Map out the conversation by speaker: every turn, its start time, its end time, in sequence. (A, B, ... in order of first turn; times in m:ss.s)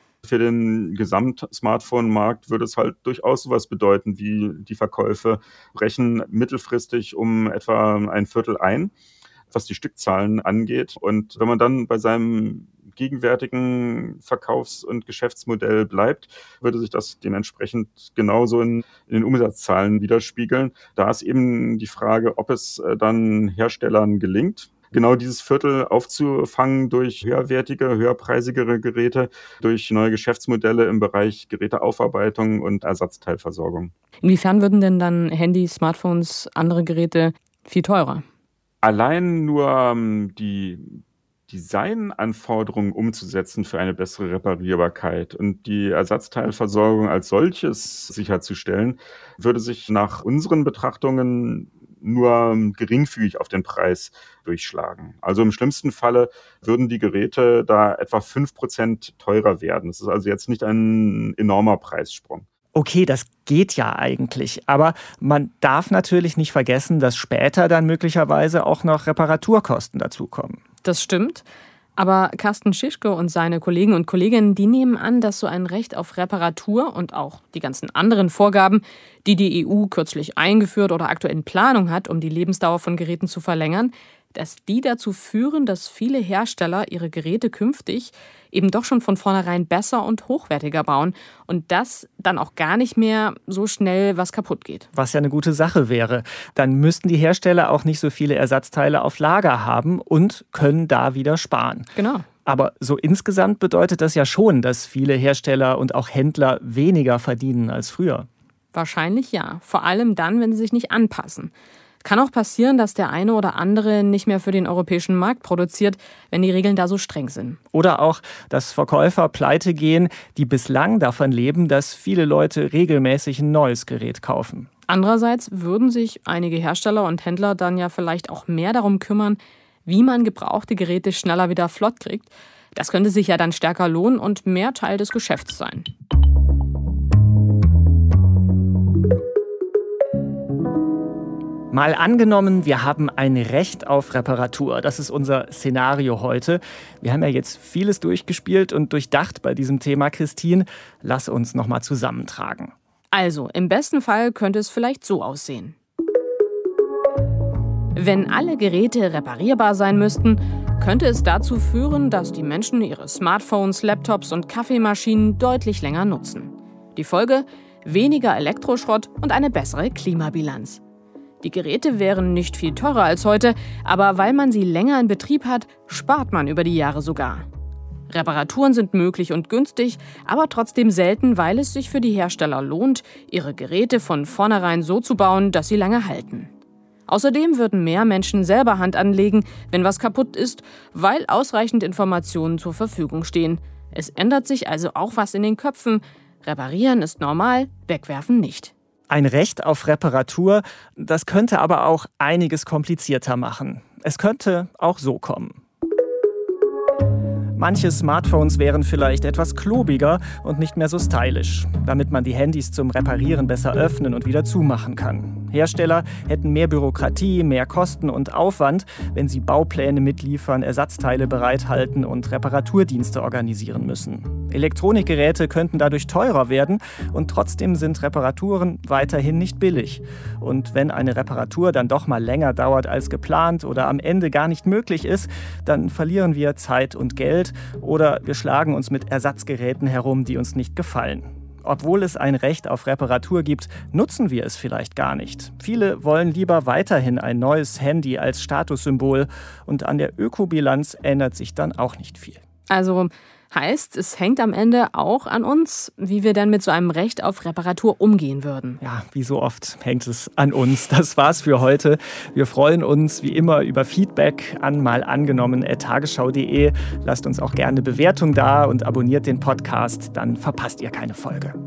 0:00.2-0:08.9 A
0:09.5-0:33.9 A
0:34.2-0:38.2 B
0:38.8-0:41.0 A
0:41.5-1:02.4 A
1:02.7-1:10.6 C
1:10.8-1:11.4 B
1:12.0-1:34.9 B
1:34.9-1:41.9 C
1:42.0-1:42.2 B
1:42.4-1:48.3 C
1:48.7-1:51.5 B
1:52.0-1:57.6 B
1:57.7-2:04.7 C
2:04.9-2:15.9 B
2:21.7-2:32.7 C
2:33.1-2:35.7 B
2:37.9-2:50.8 B
2:51.4-2:57.4 B
2:58.1-3:06.5 B
3:07.1-3:18.7 B
3:19.1-3:25.6 C
3:27.6-4:12.4 C
4:12.7-4:18.8 B
4:18.8-4:31.6 C